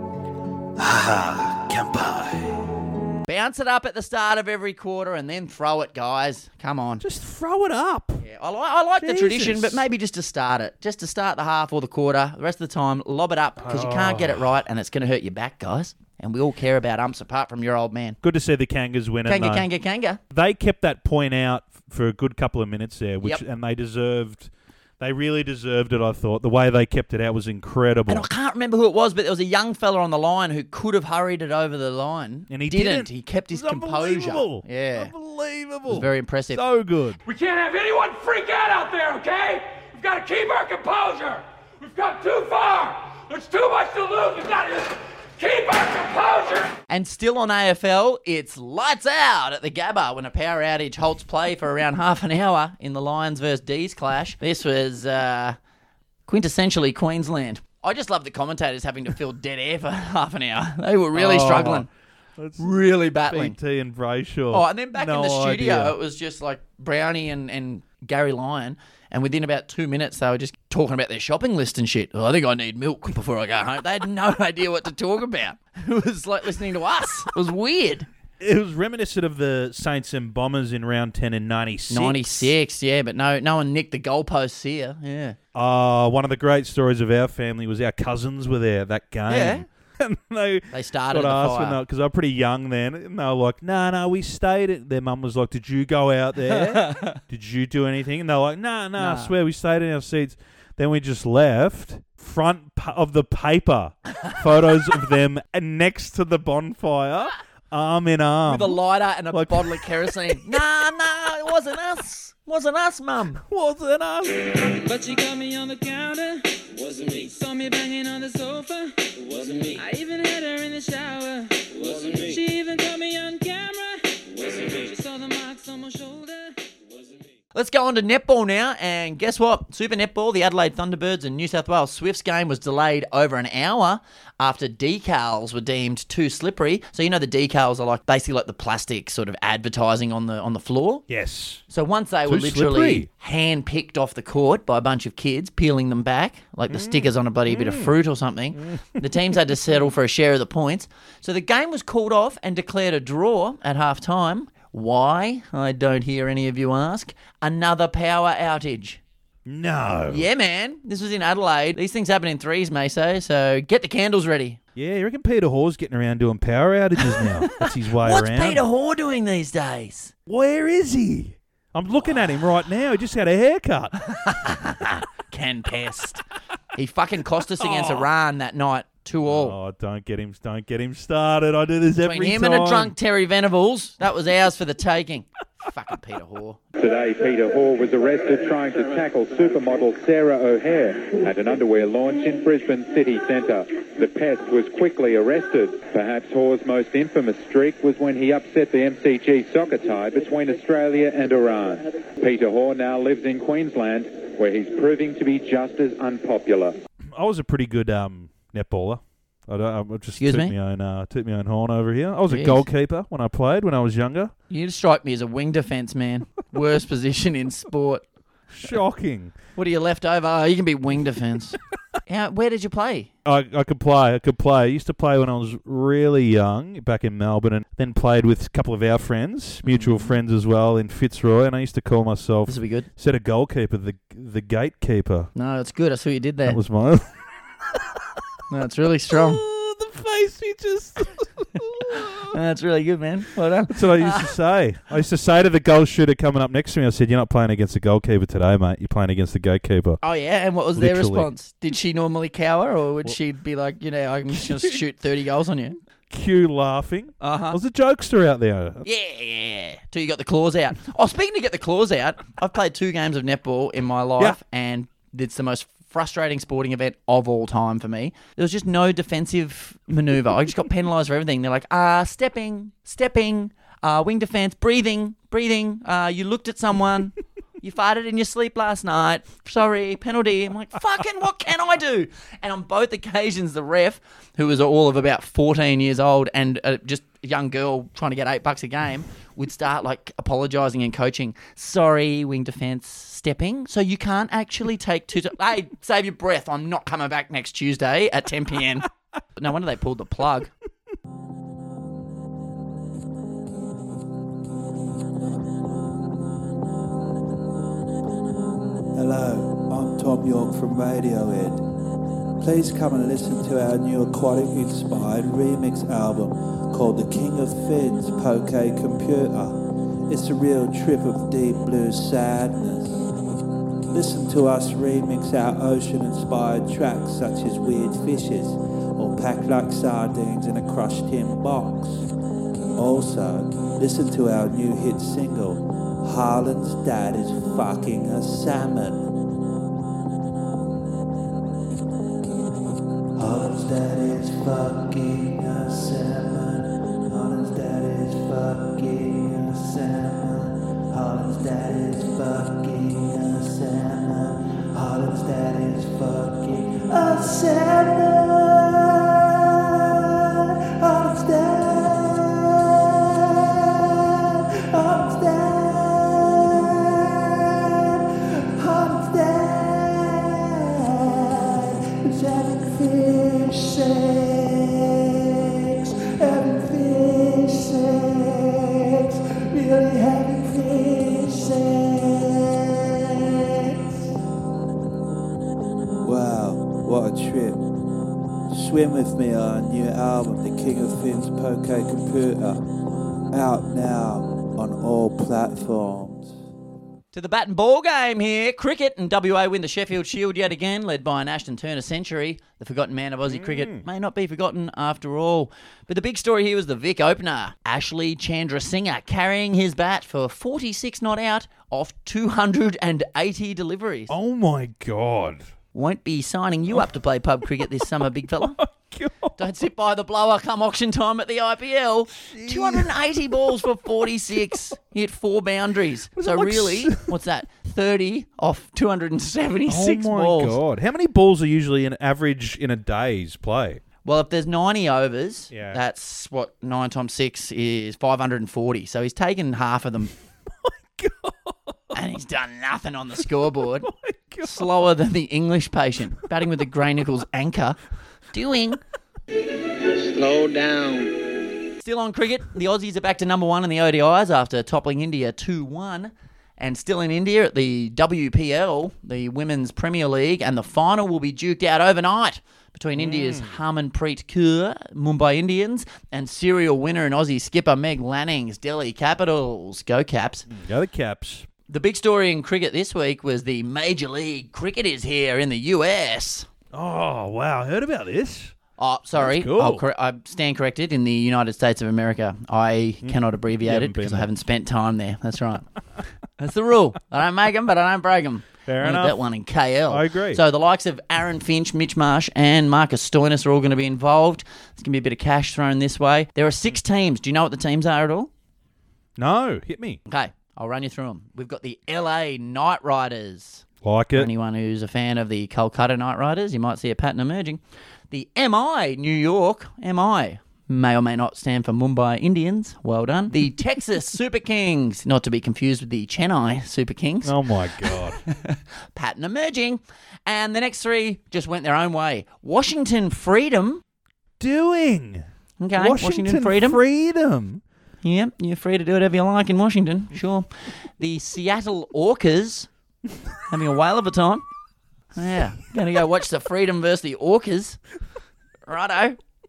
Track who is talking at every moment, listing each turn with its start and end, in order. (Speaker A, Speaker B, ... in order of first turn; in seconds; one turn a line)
Speaker A: 0.8-2.5
Speaker B: 3.3-7.0
Speaker A: 7.0-8.2
Speaker B: 8.2-18.2
Speaker A: 9.0-9.8
Speaker A: 13.6-14.4
Speaker A: 18.2-19.7
Speaker B: 19.2-20.2
Speaker A: 20.3-28.3
Speaker B: 28.1-35.1
Speaker A: 32.5-37.2
Speaker B: 35.9-36.6
Speaker C: 37.2-46.7
Speaker B: 46.9-55.6
Speaker B: 56.3-61.9
Speaker A: 61.1-62.7
Speaker B: 62.6-63.6
Speaker A: 63.3-66.0
Speaker B: 64.5-78.1
Speaker A: 78.4-82.5
Speaker B: 81.9-85.4
Speaker A: 85.5-108.8
Speaker B: 89.3-89.6
Speaker B: 90.7-91.8
Speaker B: 96.5-97.1
Speaker B: 99.0-99.3
Speaker B: 108.5-113.4
Speaker A: 109.3-110.1
Speaker A: 113.4-114.4
Speaker D: 114.7-126.6
Speaker B: 127.5-141.0
Speaker A: 141.1-141.6
Speaker B: 141.7-159.0
Speaker A: 142.2-143.1
Speaker A: 146.7-147.9
Speaker A: 148.6-149.0
Speaker A: 159.4-160.2
Speaker B: 160.1-164.6
Speaker A: 164.7-168.6
Speaker B: 167.0-170.1
Speaker A: 170.3-174.7
Speaker B: 174.2-176.2
Speaker B: 176.7-179.6
Speaker A: 177.6-178.1
Speaker A: 179.2-182.9
Speaker B: 182.0-186.6
Speaker E: 186.8-206.7
Speaker A: 207.1-214.3
Speaker B: 210.2-210.5
Speaker B: 212.3-212.7
Speaker B: 214.5-218.0
Speaker A: 218.5-219.3
Speaker B: 219.6-223.1
Speaker A: 223.2-235.3
Speaker B: 229.6-230.1
Speaker B: 232.4-232.9
Speaker B: 235.3-236.6
Speaker A: 236.4-237.1
Speaker A: 237.7-238.0
Speaker B: 238.5-239.4
Speaker A: 239.1-242.3
Speaker B: 242.0-244.3
Speaker A: 243.7-250.0
Speaker B: 250.0-255.8
Speaker A: 250.8-251.3
Speaker A: 254.4-254.7
Speaker A: 256.1-258.8
Speaker B: 257.2-257.6
Speaker B: 258.8-300.5
Speaker F: 308.9-311.6
Speaker F: 312.4-323.0
Speaker F: 323.9-332.1
Speaker F: 332.8-339.1
Speaker F: 343.1-384.0
Speaker F: 386.0-387.6
Speaker F: 388.5-392.7
Speaker F: 393.3-396.3
Speaker B: 397.1-414.1
Speaker A: 403.3-403.8
Speaker A: 414.1-415.5
Speaker B: 415.7-418.6
Speaker A: 417.8-419.4
Speaker B: 419.4-430.6
Speaker A: 422.3-422.9
Speaker A: 426.1-427.1
Speaker A: 429.7-433.8
Speaker B: 434.0-440.1
Speaker A: 435.5-435.8
Speaker A: 440.6-441.8
Speaker B: 441.9-443.9
Speaker A: 443.8-444.7
Speaker B: 444.4-447.8
Speaker B: 448.3-448.8
Speaker B: 451.8-470.4
Speaker A: 462.9-463.5
Speaker A: 470.5-471.5
Speaker B: 471.7-476.5
Speaker A: 476.7-478.6
Speaker B: 478.8-485.7
Speaker A: 479.1-479.8
Speaker A: 483.0-484.3
Speaker B: 486.4-498.3
Speaker A: 488.6-489.2
Speaker A: 489.9-490.4
Speaker A: 499.2-500.0
Speaker B: 500.1-523.8
Speaker A: 503.8-504.3
Speaker A: 517.2-518.2
Speaker A: 524.4-527.6
Speaker B: 525.6-526.8
Speaker B: 528.0-532.7
Speaker B: 533.5-534.4
Speaker B: 535.1-537.8
Speaker B: 538.7-539.2